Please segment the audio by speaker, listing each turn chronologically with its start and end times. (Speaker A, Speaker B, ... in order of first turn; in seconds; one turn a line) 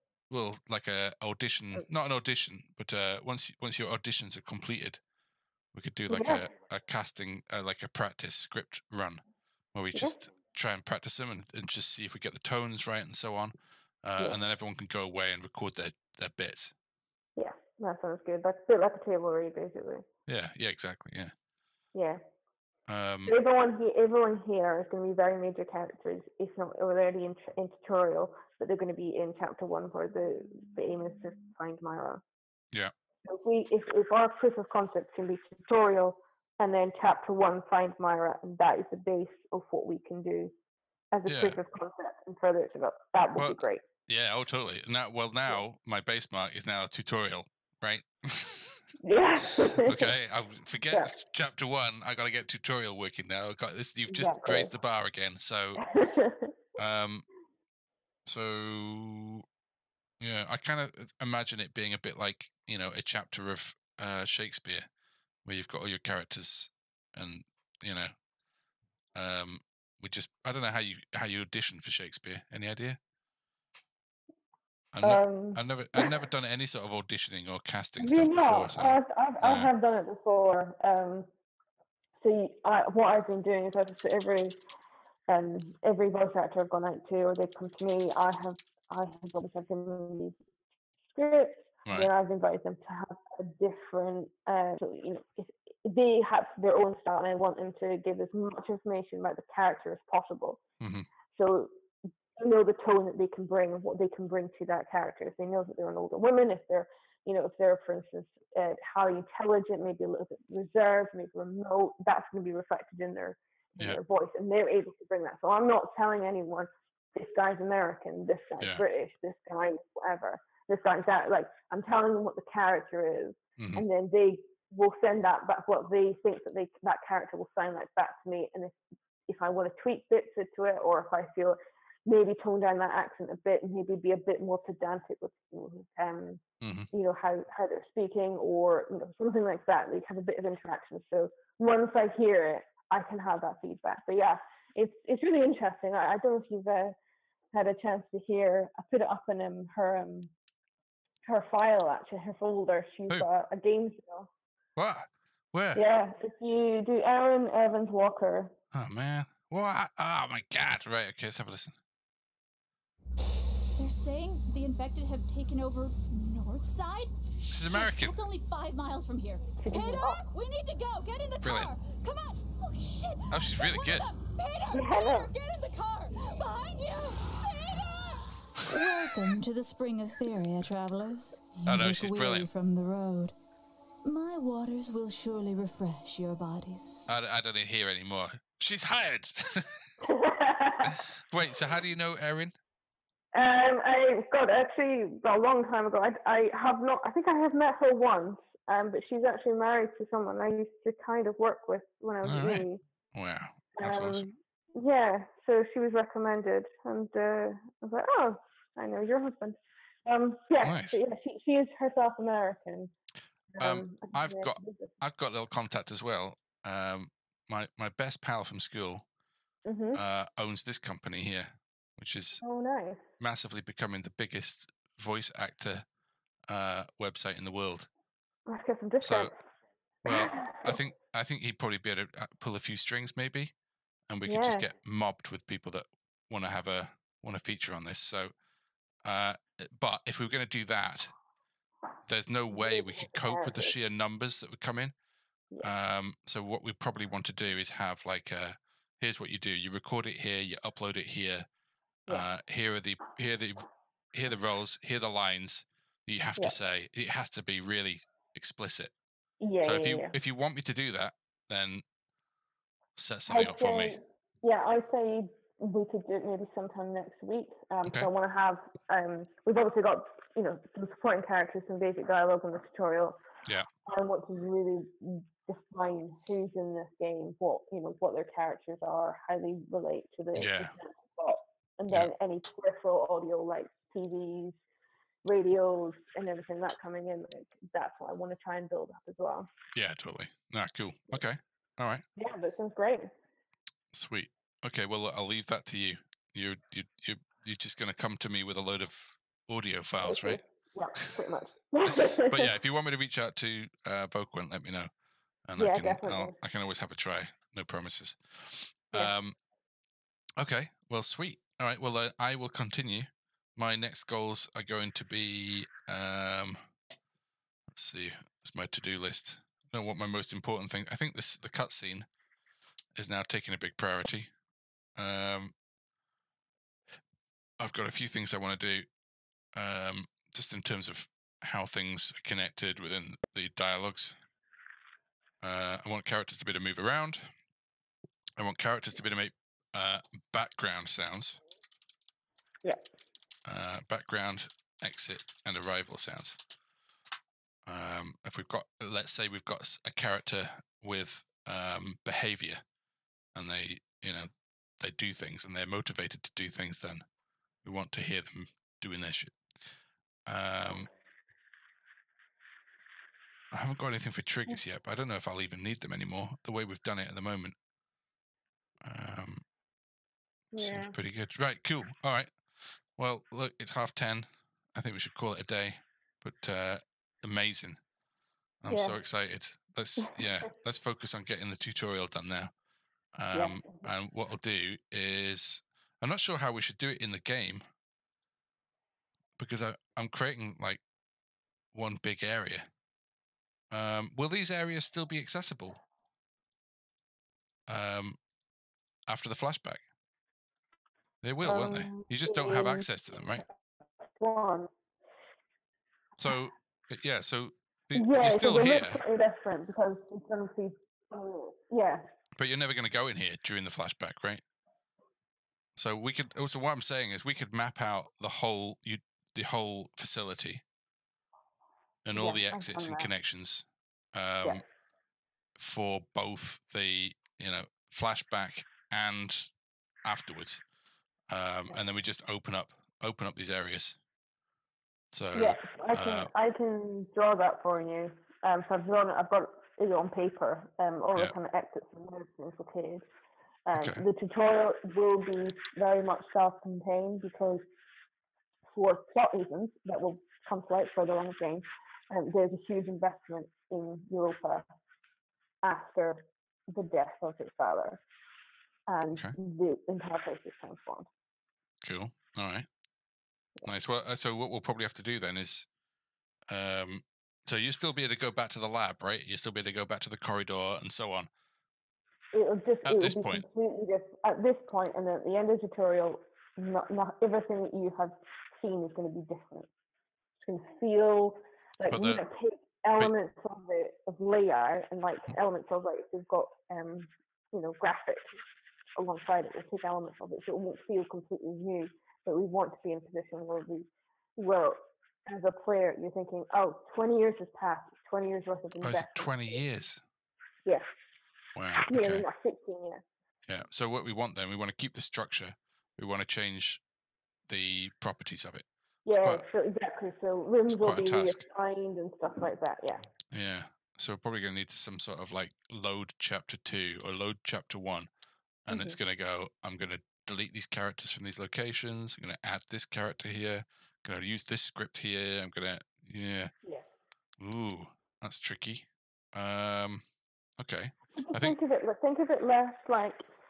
Speaker A: 0.3-5.0
Speaker A: 5.7-9.2
Speaker B: 6.1-6.5
Speaker A: 9.7-16.7
Speaker B: 17.4-20.0
Speaker A: 20.3-21.3
Speaker A: 22.9-23.4
Speaker B: 23.3-32.2
Speaker B: 33.2-40.5
Speaker B: 41.1-43.8
Speaker A: 41.3-41.6
Speaker A: 43.4-48.9
Speaker B: 49.0-50.1
Speaker A: 49.7-55.8
Speaker B: 54.1-54.7
Speaker B: 55.8-56.5
Speaker A: 56.8-57.3
Speaker A: 58.3-59.4
Speaker A: 60.2-64.9
Speaker A: 65.5-68.1
Speaker A: 69.2-73.0
Speaker A: 74.9-79.7
Speaker B: 75.0-76.2
Speaker B: 78.0-81.3
Speaker B: 82.2-84.6
Speaker B: 85.3-90.4
Speaker B: 91.0-100.6
Speaker A: 100.8-101.1
Speaker B: 101.3-101.7
Speaker B: 102.4-146.9
Speaker A: 123.6-123.8
Speaker A: 136.6-136.9
Speaker B: 147.5-150.3
Speaker B: 151.2-154.3
Speaker A: 154.8-155.8
Speaker B: 155.7-158.5
Speaker A: 158.7-161.7
Speaker C: 163.8-183.3
Speaker A: 167.5-168.2
Speaker B: 169.6-170.3
Speaker A: 171.4-171.7
Speaker A: 173.3-174.1
Speaker B: 174.7-175.3
Speaker A: 178.6-178.9
Speaker A: 181.7-182.5
Speaker C: 184.0-187.1
Speaker A: 187.1-189.9
Speaker B: 190.0-191.0
Speaker A: 190.8-192.5
Speaker B: 193.3-202.8
Speaker A: 202.2-204.3
Speaker B: 203.8-212.9
Speaker A: 210.6-211.0
Speaker B: 213.6-214.9
Speaker A: 213.6-219.1
Speaker B: 219.7-220.0
Speaker A: 219.9-222.4
Speaker B: 222.4-223.0
Speaker A: 223.2-225.8
Speaker A: 226.5-227.9
Speaker B: 228.5-229.4
Speaker A: 229.0-229.3
Speaker A: 230.1-233.5
Speaker B: 230.1-230.8
Speaker A: 234.1-238.3
Speaker B: 234.3-234.7
Speaker A: 239.0-241.1
Speaker A: 242.1-244.9
Speaker B: 242.5-243.7
Speaker A: 245.6-251.5
Speaker A: 252.1-258.9
Speaker B: 259.4-260.1
Speaker A: 259.6-261.8
Speaker A: 262.9-264.0
Speaker B: 263.3-273.2
Speaker B: 273.9-284.6
Speaker A: 280.4-280.7
Speaker B: 285.2-289.5
Speaker A: 289.7-292.0
Speaker B: 292.2-293.1
Speaker A: 293.9-300.4
Speaker B: 300.0-302.5
Speaker A: 301.9-304.9
Speaker A: 305.5-309.4
Speaker B: 305.6-306.4
Speaker A: 310.4-316.6
Speaker A: 317.7-322.1
Speaker A: 322.9-324.3
Speaker A: 324.9-325.5
Speaker A: 327.6-328.9
Speaker A: 329.5-334.1
Speaker A: 335.4-337.3
Speaker A: 338.4-341.4
Speaker A: 343.4-346.4
Speaker A: 347.6-352.6
Speaker A: 353.3-354.3
Speaker A: 354.8-357.0
Speaker A: 357.6-359.4
Speaker A: 360.3-360.9
Speaker A: 363.5-367.6
Speaker A: 368.8-369.4
Speaker B: 370.5-370.9
Speaker A: 370.6-377.8
Speaker A: 378.6-382.5
Speaker B: 378.7-378.9
Speaker A: 383.1-387.6
Speaker B: 383.3-383.9
Speaker A: 389.4-390.8
Speaker A: 391.7-392.7
Speaker A: 393.7-395.8
Speaker A: 397.7-398.2
Speaker A: 399.1-399.8
Speaker A: 401.2-403.4
Speaker B: 401.4-403.4
Speaker B: 404.2-404.7
Speaker A: 406.2-409.0
Speaker B: 407.9-412.1
Speaker A: 412.4-414.4
Speaker A: 415.8-420.6
Speaker A: 422.0-424.6
Speaker B: 422.1-423.1
Speaker A: 425.6-429.5
Speaker A: 430.0-430.6
Speaker A: 431.3-434.0
Speaker A: 435.1-436.3
Speaker B: 435.3-443.0
Speaker B: 443.7-447.6
Speaker A: 443.7-444.0
Speaker B: 448.7-454.6
Speaker B: 455.6-458.0
Speaker B: 458.9-461.1
Speaker A: 461.8-462.7
Speaker A: 463.6-465.7
Speaker A: 466.5-471.3
Speaker B: 472.3-479.7
Speaker A: 472.9-473.4
Speaker B: 480.4-488.3
Speaker A: 481.9-482.2
Speaker B: 489.0-499.6
Speaker A: 498.8-500.0
Speaker A: 501.6-502.2
Speaker B: 501.8-503.0
Speaker A: 503.4-506.8
Speaker A: 507.5-508.7
Speaker B: 509.1-513.0
Speaker A: 509.2-509.4
Speaker A: 510.7-511.4
Speaker A: 513.3-518.1
Speaker A: 518.7-526.5
Speaker B: 518.7-519.0
Speaker A: 527.4-530.0
Speaker A: 530.6-531.6
Speaker B: 531.2-533.2